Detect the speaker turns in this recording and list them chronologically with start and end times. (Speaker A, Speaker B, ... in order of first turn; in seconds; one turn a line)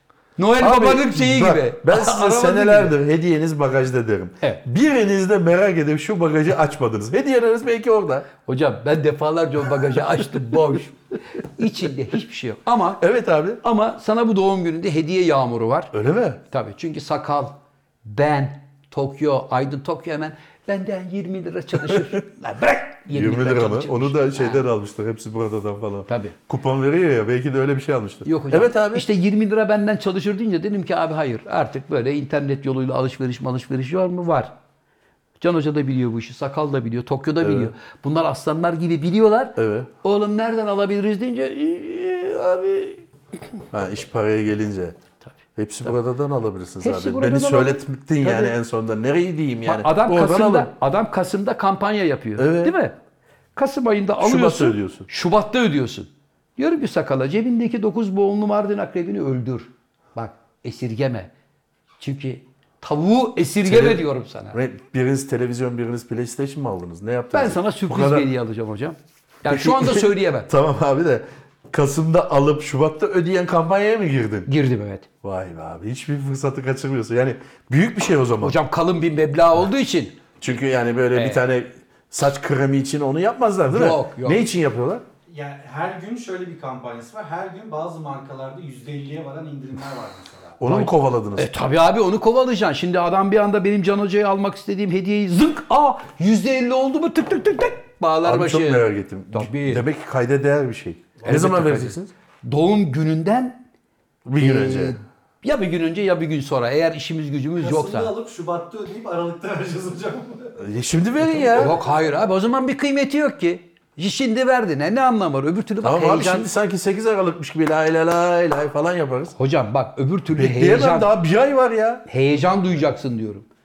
Speaker A: 0.4-2.9
Speaker B: 0.6-8.3
Speaker A: 8.4-13.0
Speaker B: 13.0-13.6
Speaker A: 13.6-15.9
Speaker B: 15.9-16.4
Speaker A: 16.5-24.6
Speaker B: 21.9-22.1
Speaker B: 23.1-29.1
Speaker A: 26.1-26.4
Speaker A: 28.2-34.5
Speaker A: 35.4-43.0
Speaker B: 37.4-37.7
Speaker B: 39.6-39.9
Speaker B: 43.7-45.0
Speaker B: 45.6-50.7
Speaker A: 46.8-48.5
Speaker A: 49.6-53.0
Speaker B: 52.4-52.7
Speaker A: 53.6-61.3
Speaker B: 54.2-55.1
Speaker A: 62.0-64.6
Speaker B: 63.6-68.3
Speaker A: 67.3-70.5
Speaker B: 69.5-74.5
Speaker A: 74.5-75.1
Speaker B: 75.2-78.6
Speaker A: 78.4-80.2
Speaker B: 80.4-85.0
Speaker A: 81.1-81.4
Speaker A: 83.7-84.4
Speaker C: 85.3-90.6
Speaker B: 90.6-91.5
Speaker A: 90.7-99.8
Speaker B: 98.2-102.1
Speaker A: 101.2-103.6
Speaker B: 104.2-105.0
Speaker A: 104.4-108.1
Speaker C: 107.6-110.6
Speaker B: 110.6-111.8
Speaker A: 111.3-116.5
Speaker B: 115.8-119.4
Speaker A: 119.4-121.1
Speaker B: 120.3-122.0
Speaker A: 122.1-123.5